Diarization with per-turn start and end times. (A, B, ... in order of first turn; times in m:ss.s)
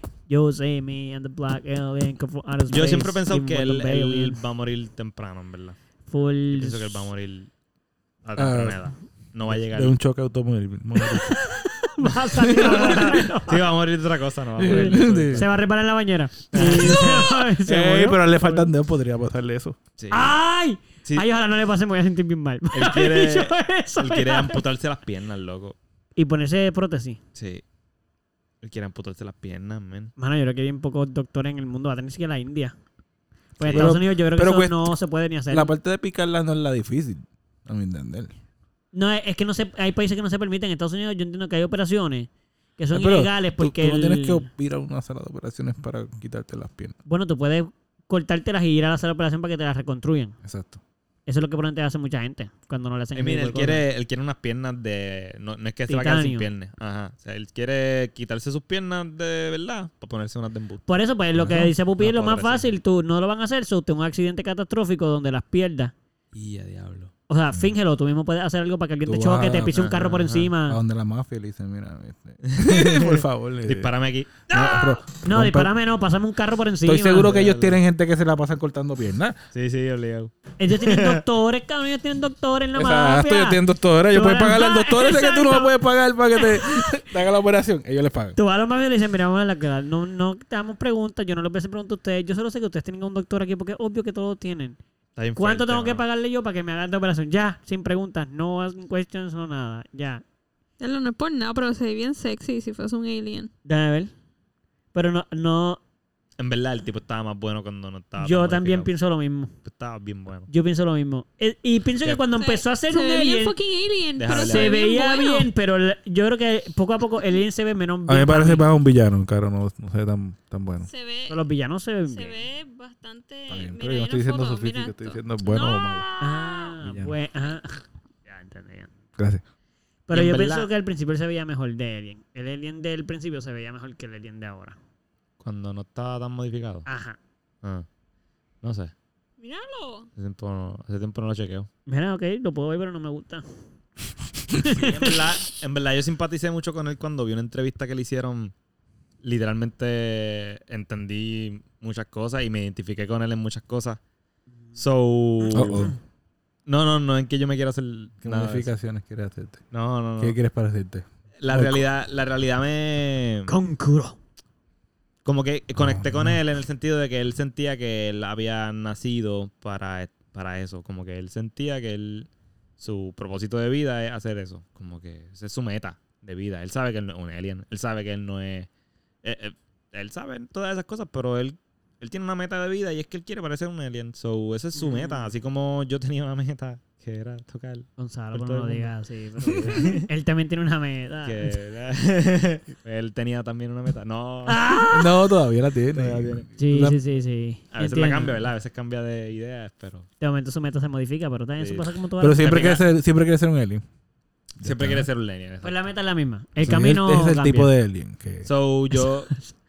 0:00.3-0:04.4 A
0:02.7-0:05.8 B
0:06.1-0:07.1 A
0:06.5-0:07.5 B
0:08.2-0:10.0 B
0:08.4-0:08.8 C
0:09.5-0:11.4 C
0:11.2-0:13.7 A
0:12.0-0:15.6 B
0:14.6-0:15.4 C
0:14.6-0:18.7 A
0:16.5-0:17.3 B
0:16.6-0:19.8 C
0:20.0-0:20.4 B
0:20.1-0:24.6 A
0:22.7-0:25.8 B
0:26.2-0:27.2 A
0:27.4-0:27.6 B
0:28.6-0:30.1 B
0:30.2-0:32.7 A
0:33.6-0:35.7 A
0:33.6-0:34.0 B
0:33.7-0:35.0 C
0:35.5-0:38.3 C
0:38.9-0:44.5 A
0:42.9-0:47.0 C
0:47.1-0:50.4 A
0:50.4-0:50.8 C
0:51.3-0:53.8 A
0:53.1-1:00.9 B
0:55.9-0:56.5 A
1:00.9-1:05.9 A
1:01.4-1:01.7 C
1:02.0-1:02.7 B
1:06.3-1:07.1 B
1:07.3-1:10.8 A
1:09.1-1:09.9 C
1:09.8-1:10.5 B
1:10.6-1:13.9 C
1:12.4-1:14.5 B
1:14.5-1:15.7 C
1:14.5-1:17.3 A
1:16.8-1:19.4 C
1:17.2-1:17.8 B
1:19.5-1:21.2 B
1:20.6-1:25.0 A
1:22.8-1:28.4 C
1:24.5-1:25.7 D
1:28.4-1:34.8 A
1:35.2-1:36.0 B
1:35.4-1:40.2 A
1:40.8-1:43.5 D
1:43.6-1:44.1 A
1:44.9-1:45.8 A
1:46.4-1:48.9 B
1:48.2-1:49.5 A
1:49.6-1:50.5 B
1:50.5-1:53.6 A
1:52.4-1:55.5 D
1:54.2-1:54.8 B
1:54.3-1:58.7 A
1:58.1-2:00.9 C
2:00.8-2:01.4 D
2:01.3-2:02.4 A
2:02.1-2:06.8 D
2:03.5-2:06.1 C
2:06.2-2:08.9 A
2:06.8-2:07.1 C
2:09.2-2:09.4 C
2:10.1-2:14.8 A
2:10.1-2:10.7 B
2:15.4-2:16.9 B
2:16.9-2:17.2 A
2:18.6-2:18.9 B
2:19.4-2:20.1 D
2:20.2-2:21.7 B
2:21.9-2:23.4 A
2:24.5-2:25.1 A
2:24.6-2:28.5 B
2:29.2-2:34.0 B
2:34.8-2:35.9 B
2:35.4-2:36.0 A
2:35.5-2:35.9 C
2:36.7-2:38.7 B
2:38.2-2:39.6 C
2:39.7-2:40.4 B
2:40.2-2:41.9 C
2:41.4-2:43.5 B
2:43.5-2:44.2 A
2:45.2-2:58.7 B
2:45.8-2:46.4 C
2:59.2-3:10.1 B
3:04.8-3:05.3 A
3:08.0-3:11.5 A
3:11.2-3:14.8 B
3:14.5-3:15.1 A
3:14.9-3:17.0 C
3:15.9-3:16.5 B
3:16.6-3:18.4 A
3:17.7-3:20.1 B
3:20.2-3:22.8 A
3:21.6-3:22.8 B
3:22.2-3:23.8 C
3:24.6-3:25.1 C
3:24.6-3:25.9 B
3:25.6-3:27.7 A
3:26.6-3:28.5 C
3:28.4-3:29.4 B
3:29.0-3:29.5 A